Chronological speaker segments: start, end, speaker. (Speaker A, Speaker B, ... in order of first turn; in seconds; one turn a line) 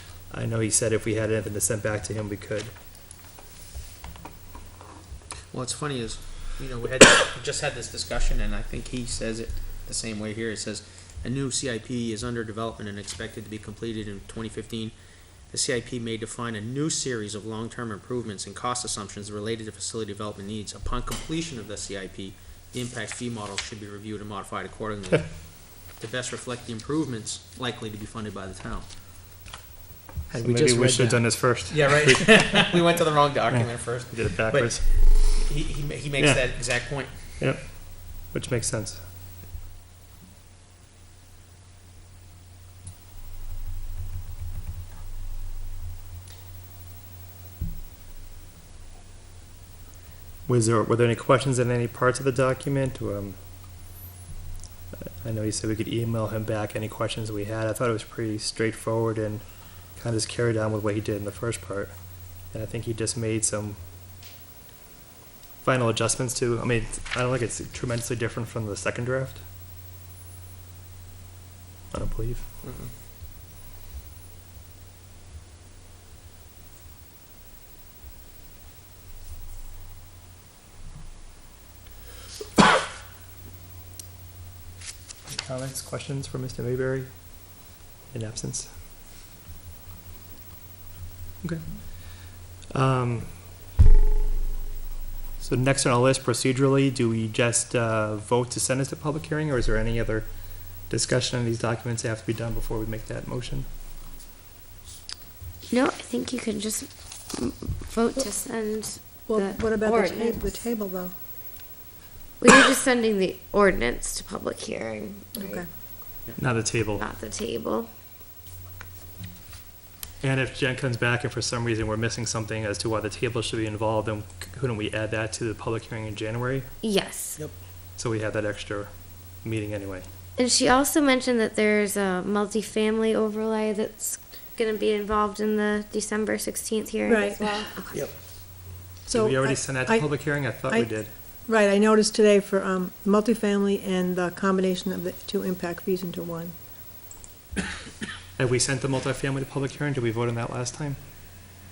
Speaker A: 0.3-2.7
Speaker B: 5.5-14.9
Speaker B: 15.5-28.9
Speaker A: 30.3-32.7
Speaker B: 31.4-37.1
Speaker A: 33.5-34.9
Speaker A: 36.2-39.0
Speaker A: 50.5-53.4
Speaker A: 55.2-61.9
Speaker A: 62.5-63.8
Speaker A: 65.6-69.4
Speaker A: 71.9-72.4
Speaker B: 72.6-72.9
Speaker A: 85.3-87.1
Speaker A: 88.1-88.7
Speaker A: 91.4-93.3
Speaker A: 95.4-100.3
Speaker A: 100.8-103.7
Speaker C: 105.7-110.6
Speaker D: 109.3-111.1
Speaker C: 112.4-115.6
Speaker D: 115.3-115.7
Speaker A: 116.4-117.0
Speaker C: 116.9-117.9
Speaker A: 120.2-126.7
Speaker C: 126.8-127.4
Speaker A: 128.0-130.1
Speaker C: 130.4-137.9
Speaker D: 137.1-137.7
Speaker D: 139.1-140.9
Speaker A: 139.1-141.1
Speaker D: 141.4-146.5
Speaker A: 148.4-151.0